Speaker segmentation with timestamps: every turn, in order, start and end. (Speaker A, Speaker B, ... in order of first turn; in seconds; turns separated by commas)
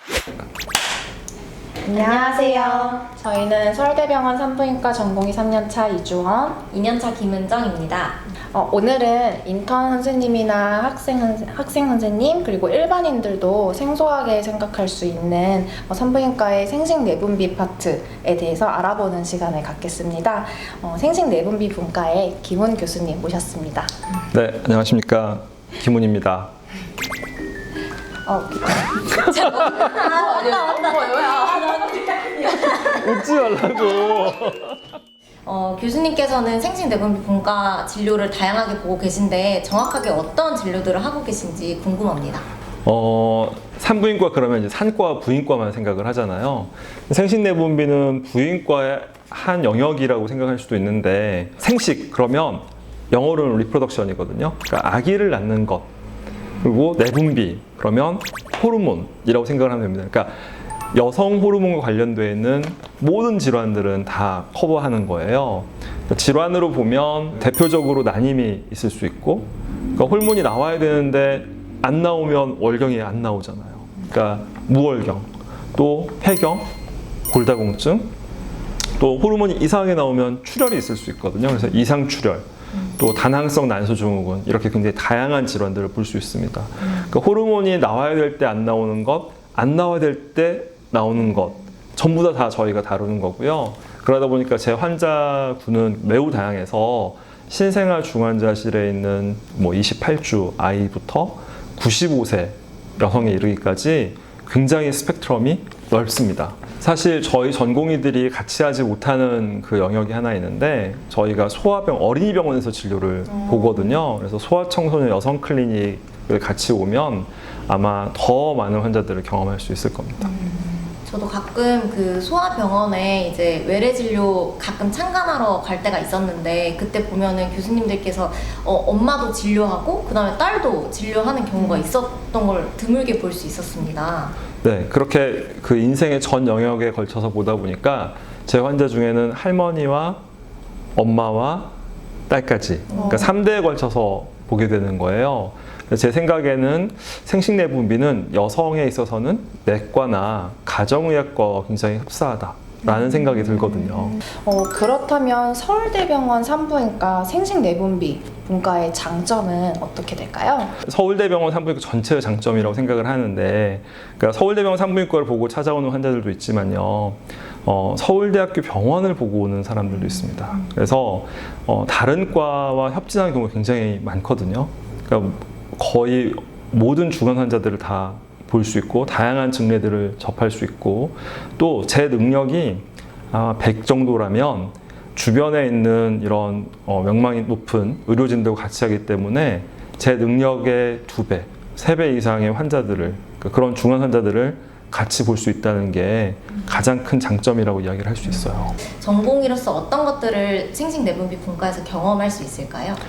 Speaker A: 1.8-6.6, Speaker B: 1.9-3.0, Speaker B: 6.7-8.2, Speaker A: 8.5-23.9, Speaker C: 24.3-26.5, Speaker A: 28.2-31.8, Speaker B: 29.2-33.1, Speaker C: 32.9-34.8, Speaker B: 35.4-42.5, Speaker C: 42.8-55.9, Speaker C: 56.6-60.4, Speaker C: 60.9-76.7, Speaker C: 77.3-78.1, Speaker C: 79.0-120.3, Speaker B: 120.3-134.4, Speaker C: 134.6-140.2, Speaker C: 140.9-141.7, Speaker C: 142.3-154.2, Speaker A: 142.9-143.2, Speaker B: 142.9-143.2, Speaker A: 153.9-160.8, Speaker C: 160.8-198.8, Speaker B: 198.8-203.0